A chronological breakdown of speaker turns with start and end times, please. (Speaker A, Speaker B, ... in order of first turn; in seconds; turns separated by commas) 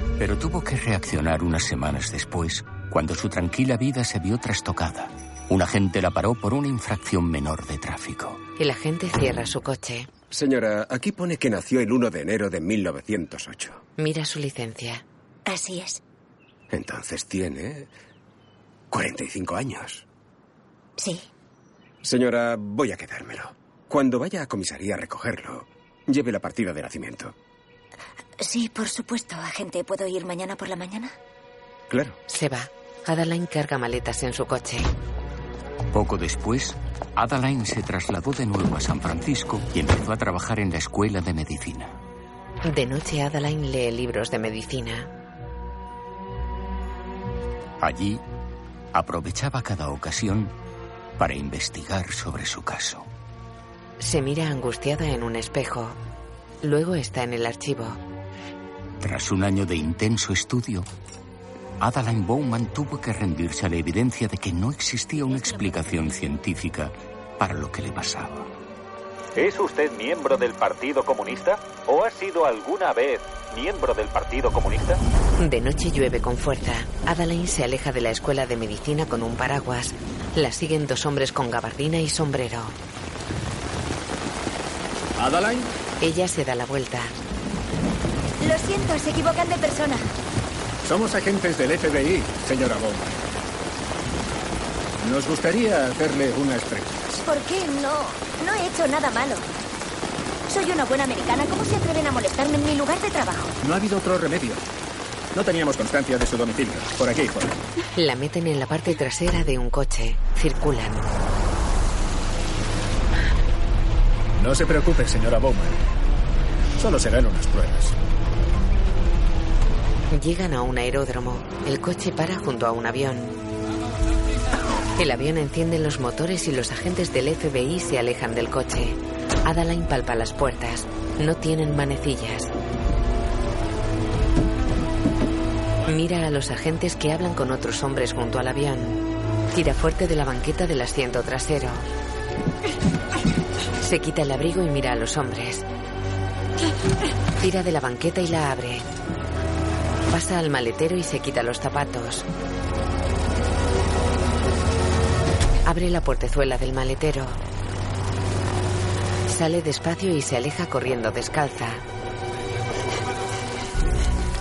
Speaker A: 0.2-8.4, Speaker B: 8.6-10.1, Speaker C: 10.3-13.8, Speaker B: 14.0-15.0, Speaker D: 15.5-16.0, Speaker C: 16.7-17.9, Speaker C: 18.9-20.1, Speaker D: 21.0-21.3, Speaker C: 22.0-27.3, Speaker D: 28.4-31.2, Speaker C: 31.9-32.2, Speaker B: 32.3-34.9, Speaker A: 35.9-42.0, Speaker B: 42.6-45.1, Speaker A: 47.8-48.2, Speaker A: 48.9-50.5, Speaker A: 51.2-53.1, Speaker B: 54.0-56.0, Speaker B: 56.6-58.0, Speaker A: 59.0-60.9, Speaker A: 61.8-68.5, Speaker E: 69.4-75.0, Speaker B: 75.4-82.8, Speaker F: 85.2-85.7, Speaker B: 86.0-87.2, Speaker D: 88.4-90.1, Speaker F: 90.8-93.2, Speaker F: 95.0-97.2, Speaker D: 97.2-99.5, Speaker D: 100.5-103.6, Speaker F: 103.6-104.6, Speaker F: 105.3-107.6, Speaker B: 108.0-111.1, Speaker F: 114.4-115.8, Speaker F: 116.8-118.0, Speaker B: 120.1-123.4, Speaker B: 125.0-132.5, Speaker B: 135.9-141.9, Speaker B: 143.8-145.7, Speaker B: 147.4-148.9, Speaker B: 150.1-152.3, Speaker B: 155.7-157.4, Speaker B: 159.3-161.8